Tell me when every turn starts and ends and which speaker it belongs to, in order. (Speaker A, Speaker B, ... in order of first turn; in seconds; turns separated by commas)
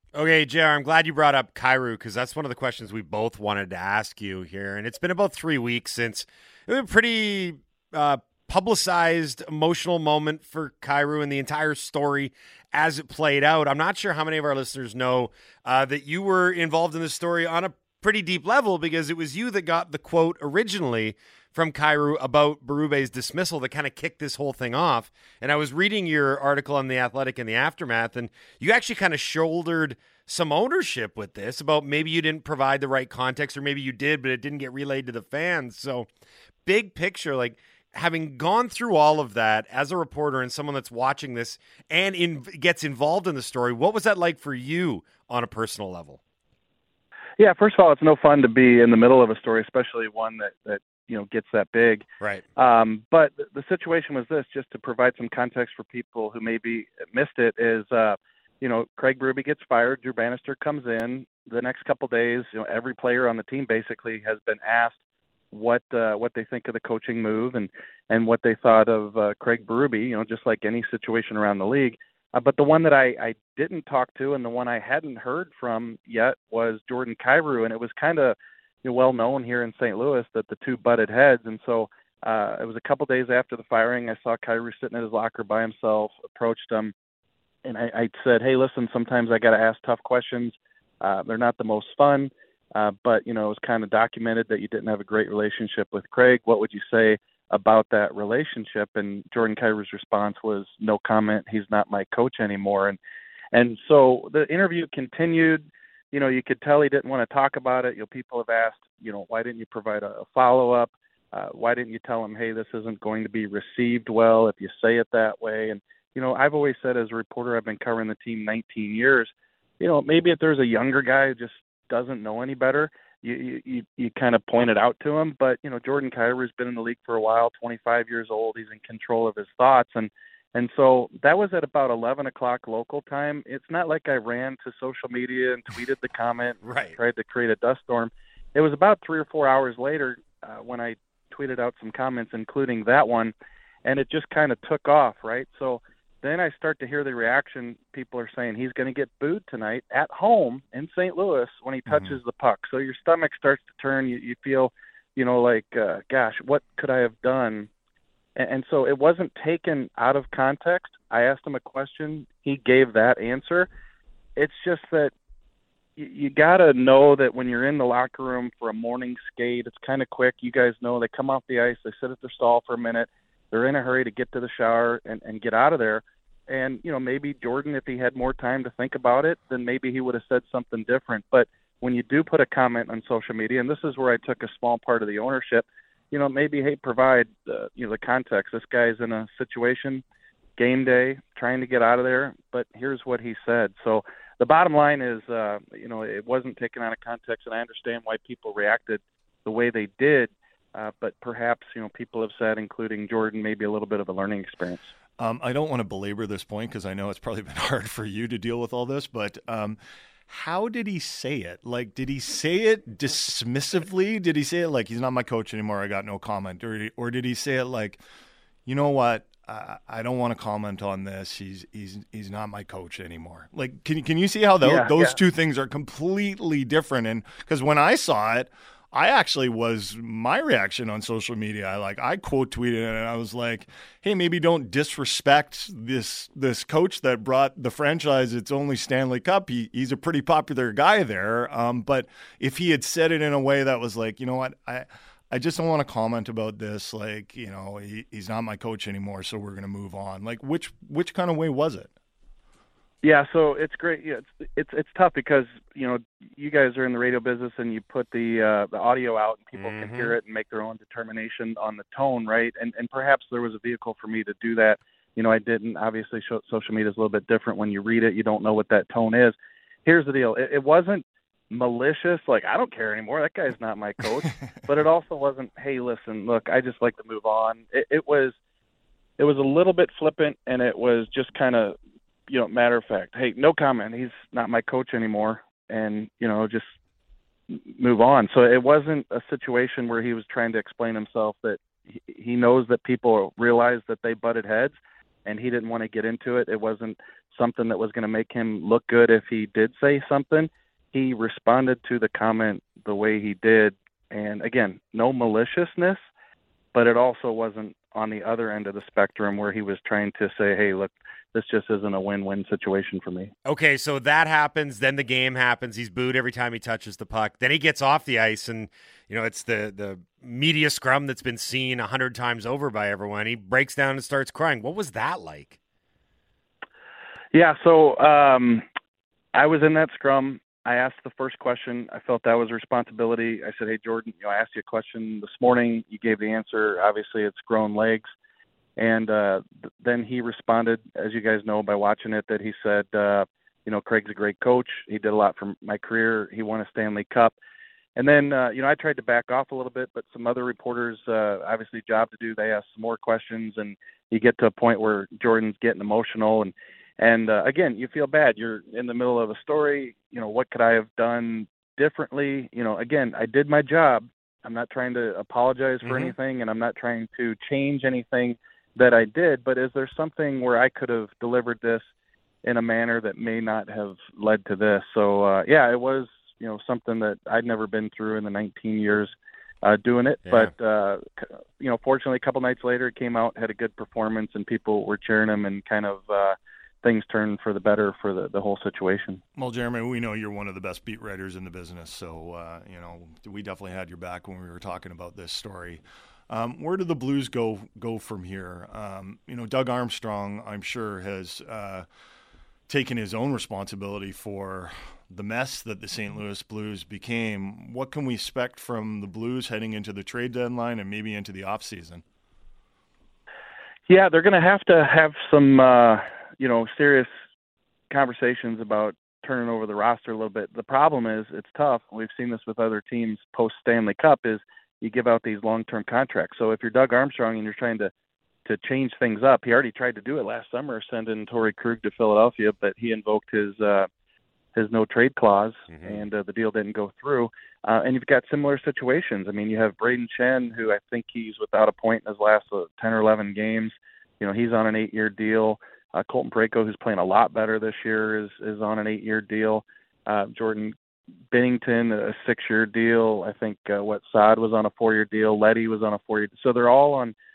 Speaker A: 0.1-36.1, Speaker A: 36.6-46.2, Speaker B: 47.4-52.0, Speaker B: 52.6-64.9, Speaker B: 65.5-86.9, Speaker B: 87.6-103.0, Speaker B: 103.5-143.3, Speaker A: 136.6-137.0, Speaker B: 143.8-157.7, Speaker C: 151.9-152.2, Speaker B: 158.3-163.7, Speaker B: 164.3-165.1, Speaker B: 166.0-190.0, Speaker B: 190.6-204.9, Speaker C: 205.2-218.0, Speaker C: 218.7-251.9, Speaker B: 224.6-225.2, Speaker B: 253.0-278.3, Speaker A: 259.6-260.1, Speaker B: 279.2-281.8, Speaker B: 282.3-286.7, Speaker B: 287.5-306.0, Speaker B: 306.7-313.3, Speaker A: 313.4-325.6, Speaker B: 327.3-328.6, Speaker B: 329.3-338.1, Speaker B: 338.8-347.3, Speaker B: 347.9-371.8, Speaker A: 365.8-366.1, Speaker B: 372.4-389.2, Speaker A: 380.2-380.5, Speaker C: 389.4-401.9, Speaker C: 402.7-412.0, Speaker B: 413.9-417.1, Speaker B: 417.9-427.9, Speaker B: 428.4-433.9, Speaker B: 434.5-450.7, Speaker A: 435.7-436.0, Speaker B: 451.3-457.1